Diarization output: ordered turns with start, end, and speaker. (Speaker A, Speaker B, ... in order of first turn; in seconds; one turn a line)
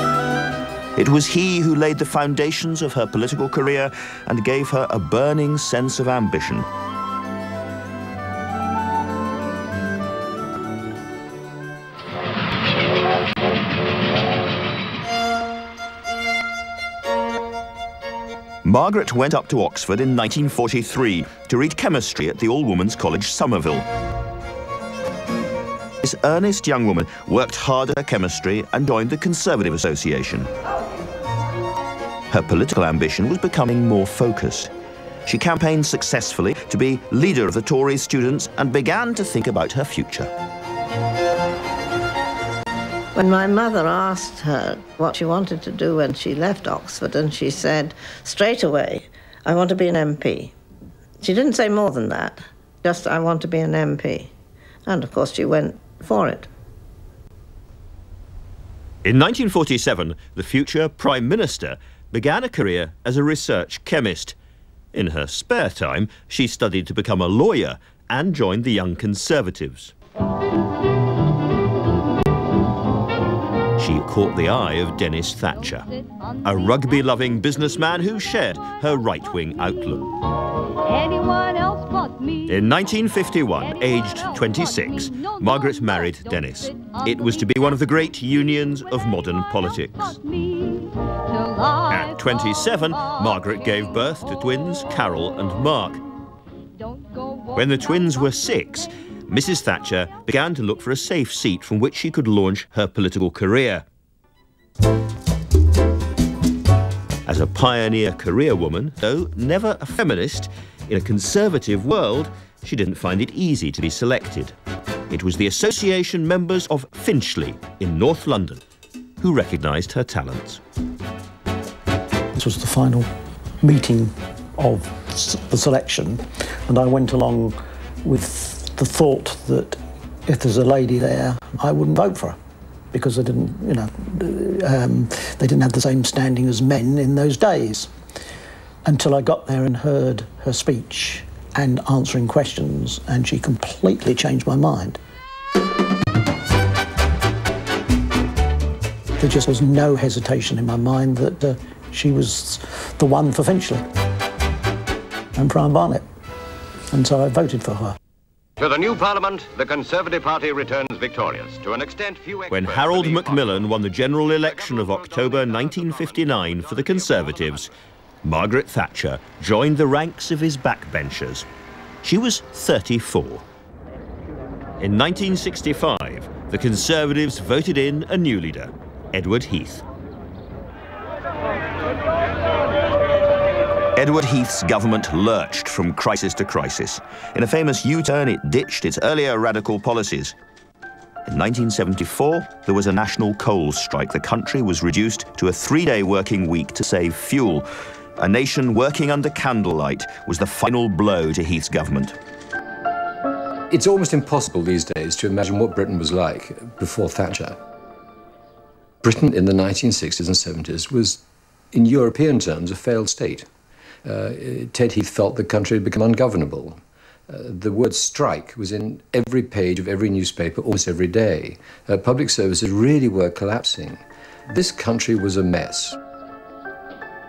Speaker A: 0.9-6.7
Speaker A: 18.6-23.9
Speaker A: 26.0-30.5
Speaker A: 32.3-34.7
Speaker A: 35.2-40.3
Speaker B: 43.1-50.5
Speaker B: 51.2-54.3
Speaker B: 54.9-56.5
Speaker A: 59.0-64.3
Speaker A: 64.9-69.9
Speaker A: 73.8-75.9
Speaker A: 76.4-80.2
Speaker A: 82.5-90.8
Speaker A: 91.9-96.0
Speaker A: 97.5-103.8
Speaker A: 107.2-114.5
Speaker A: 115.1-118.6
Speaker A: 119.2-120.6
Speaker C: 122.3-123.1
Speaker C: 123.6-132.4
Speaker C: 132.9-137.9
Speaker C: 138.8-145.0
Speaker C: 149.2-153.8
Speaker C: 155.3-156.1
Speaker C: 156.9-157.9
Speaker D: 158.6-163.6
Speaker A: 162.5-167.7
Speaker D: 164.5-167.7
Speaker A: 168.2-171.4
Speaker A: 172.0-173.4
Speaker A: 174.8-179.8
Speaker A: 183.9-190.3
Speaker A: 191.3-197.7
Speaker A: 198.2-202.2
Speaker E: 203.7-207.6
Speaker E: 209.0-213.5
Speaker E: 214.0-226.0